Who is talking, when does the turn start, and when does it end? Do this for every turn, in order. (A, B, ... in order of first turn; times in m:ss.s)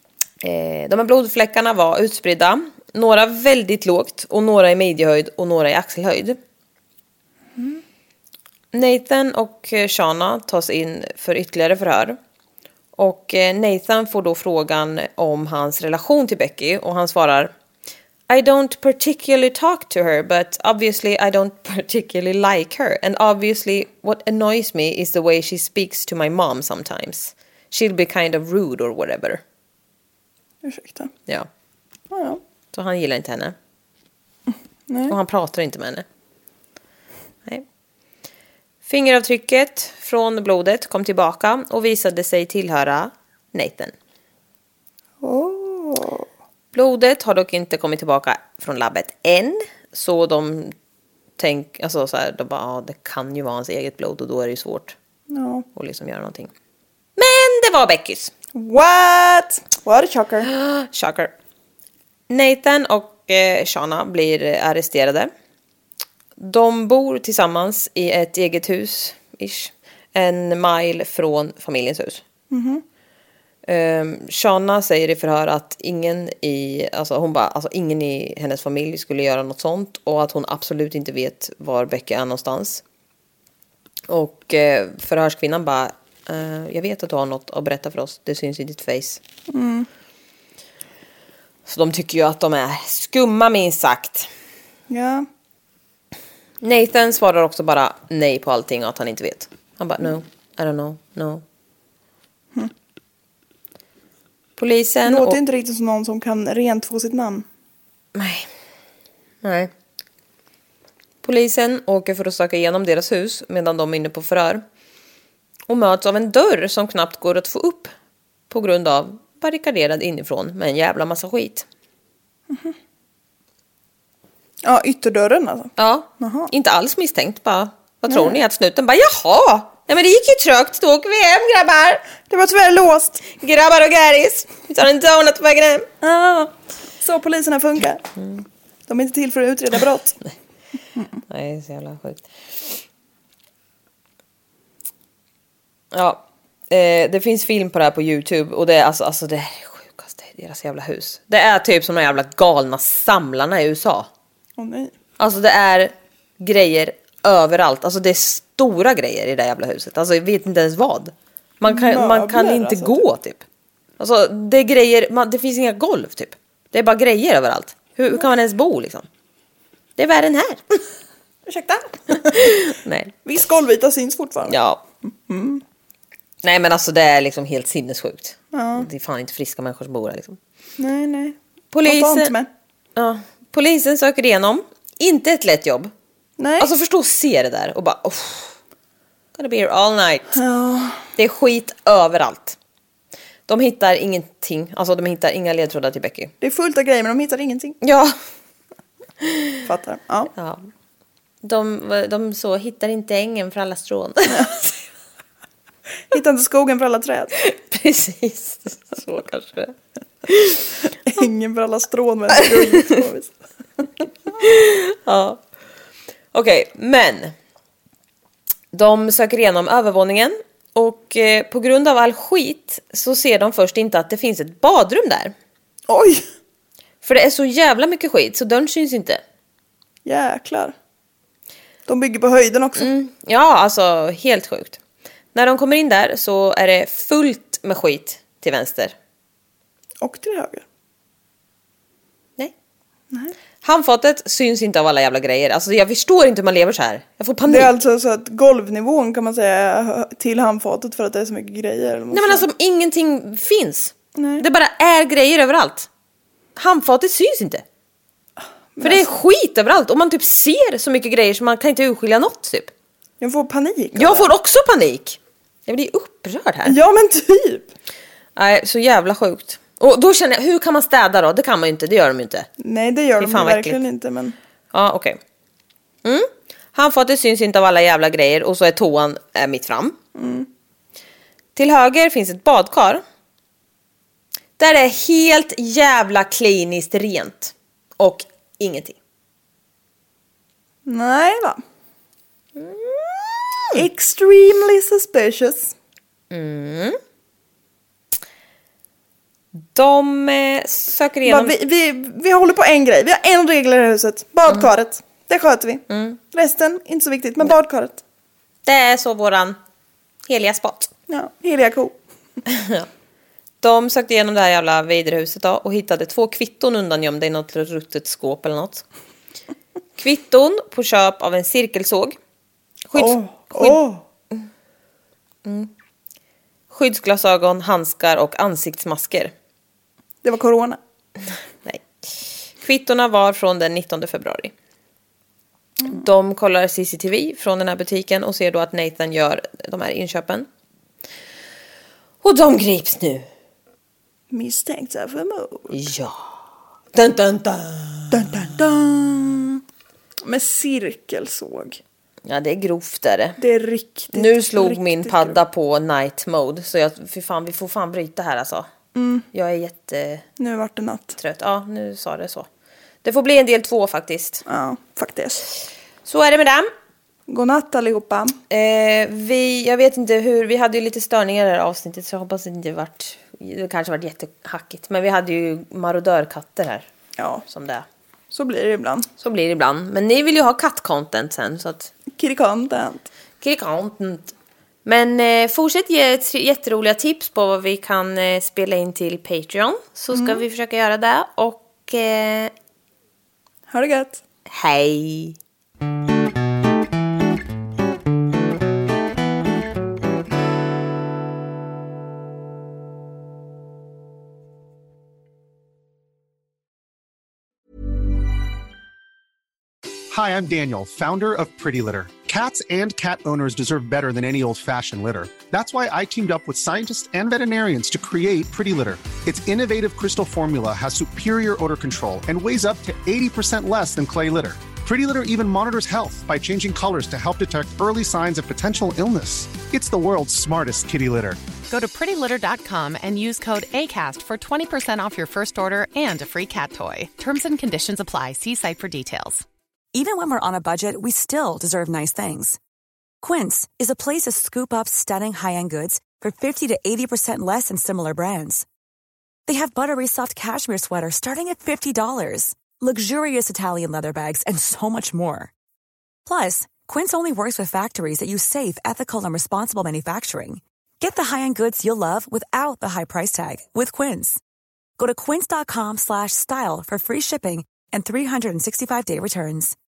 0:00.4-0:06.4 A
0:08.7-0:12.2 A
0:13.0-0:17.5 A
0:18.3-0:29.4 A
0:30.6-0:31.1 B
0:32.1-0:32.4 B
0:32.7-0:33.6 A
0:34.9-0:35.2 B
0:35.1-0:36.1 A
0:38.8-0:43.9 A
0:45.2-0:46.3 B
0:46.7-0:50.7 A
0:51.4-0:55.0 A
0:55.3-0:55.7 B
0:55.8-0:56.5 A
0:57.2-0:58.3 A
0:58.6-1:00.5 B
1:00.4-1:01.3 A
1:02.3-1:05.3 A
1:06.4-1:12.2 A
1:12.5-1:12.8 B
1:13.7-1:22.8 A
1:24.1-1:29.2 A
1:29.5-1:29.9 B
1:31.7-1:34.3 A
1:34.9-1:35.3 B
1:36.6-1:41.4 A
1:44.6-1:45.4 A
1:45.1-1:47.5 B
1:48.1-1:48.5 A
1:49.4-1:49.7 A
1:51.2-1:54.6 A
1:55.7-1:57.9 A
1:58.5-2:01.7 A
2:02.5-2:02.8 B
2:04.6-2:06.5 B
2:05.8-2:12.1 A
2:08.1-2:08.4 B
2:12.3-2:13.3 B
2:13.3-2:15.9 A
2:16.0-2:18.1 B
2:18.9-2:20.2 B
2:21.3-2:22.8 A
2:25.9-2:34.1 A
2:34.6-2:34.9 B
2:35.2-2:43.4 A
2:41.6-2:43.0 B
2:44.0-2:49.1 A
2:50.0-2:50.8 A
2:51.5-2:52.7 B
2:52.2-2:53.2 A
2:53.2-2:54.6 B
2:54.4-2:54.8 A
2:55.3-2:55.6 B
2:56.4-3:00.4 A
2:58.5-2:58.9 B
3:00.8-3:02.5 B
3:01.7-3:02.4 A
3:03.0-3:05.9 A
3:06.4-3:06.7 B
3:06.6-3:08.6 A
3:09.4-3:10.4 A
3:10.4-3:11.1 B
3:11.2-3:12.6 A
3:13.5-3:16.3 A
3:16.4-3:17.8 B
3:17.8-3:18.2 A
3:19.2-3:19.6 A
3:19.6-3:20.3 B
3:20.4-3:20.7 A
3:21.4-3:24.7 A
3:26.1-3:27.4 B
3:27.4-3:29.8 A
3:30.3-3:30.7 A
3:31.0-3:33.9 B
3:32.4-3:33.0 A
3:34.4-3:35.4 A
3:36.3-3:37.3 A
3:38.7-3:45.3 A
3:45.9-3:46.2 B
3:47.0-3:49.2 A
3:50.0-3:50.7 B
3:51.9-3:52.9 B
3:52.8-3:54.8 A
3:55.3-3:59.0 A
4:00.0-4:00.6 B
4:03.6-4:07.7 A
4:07.5-4:12.5 B
4:12.1-4:15.9 A
4:14.2-4:14.5 B
4:16.6-4:17.6 A
4:18.8-4:19.1 B
4:18.8-4:22.7 A
4:23.2-4:24.3 B
4:24.0-4:26.8 A
4:26.6-4:27.7 B
4:28.4-4:32.5 A
4:32.6-4:34.4 B
4:33.2-4:33.8 A
4:34.7-4:35.2 A
4:36.0-4:40.0 A
4:40.2-4:40.5 B
4:41.6-4:43.0 A
4:44.6-4:49.0 A
4:50.9-4:51.6 B
4:52.6-4:53.7 A
4:53.7-4:55.7 B
4:56.3-4:57.0 A
4:59.6-5:01.6 A
5:01.3-5:08.0 B
5:05.9-5:06.2 A
5:08.6-5:09.6 A
5:10.3-5:10.9 A
5:11.1-5:12.0 B
5:12.5-5:12.9 A
5:13.6-5:18.8 A
5:20.0-5:22.2 A
5:22.9-5:23.8 A
5:22.9-5:24.0 B
5:25.4-5:25.7 A
5:26.7-5:29.3 A
5:30.2-5:30.8 B
5:31.6-5:34.5 A
5:35.8-5:40.5 A
5:42.2-5:43.3 A
5:44.3-5:45.8 B
5:45.7-5:48.5 A
5:48.1-5:49.6 B
5:50.2-5:51.8 B
5:52.2-5:53.4 A
5:53.4-5:55.4 B
5:54.1-5:58.7 A
5:59.0-5:59.3 B
5:59.3-6:00.3 A
6:00.4-6:01.2 B
6:01.2-6:02.5 A
6:03.0-6:04.4 A
6:04.5-6:05.5 B
6:06.1-6:06.7 A
6:07.3-6:08.4 B
6:08.5-6:16.9 A
6:17.2-6:17.4 B
6:17.5-6:17.9 A
6:18.3-6:19.1 B
6:19.2-6:21.9 A
6:22.1-6:23.1 B
6:23.4-6:24.3 A
6:24.8-6:32.5 A
6:30.1-6:30.4 B
6:33.7-6:34.2 B
6:34.5-6:35.4 A
6:50.1-7:11.4 C
7:11.7-7:19.4 D
7:19.9-7:22.6 E
7:23.2-7:28.6 E
7:29.5-7:35.5 E
7:36.3-7:44.4 E
7:45.0-7:49.8 E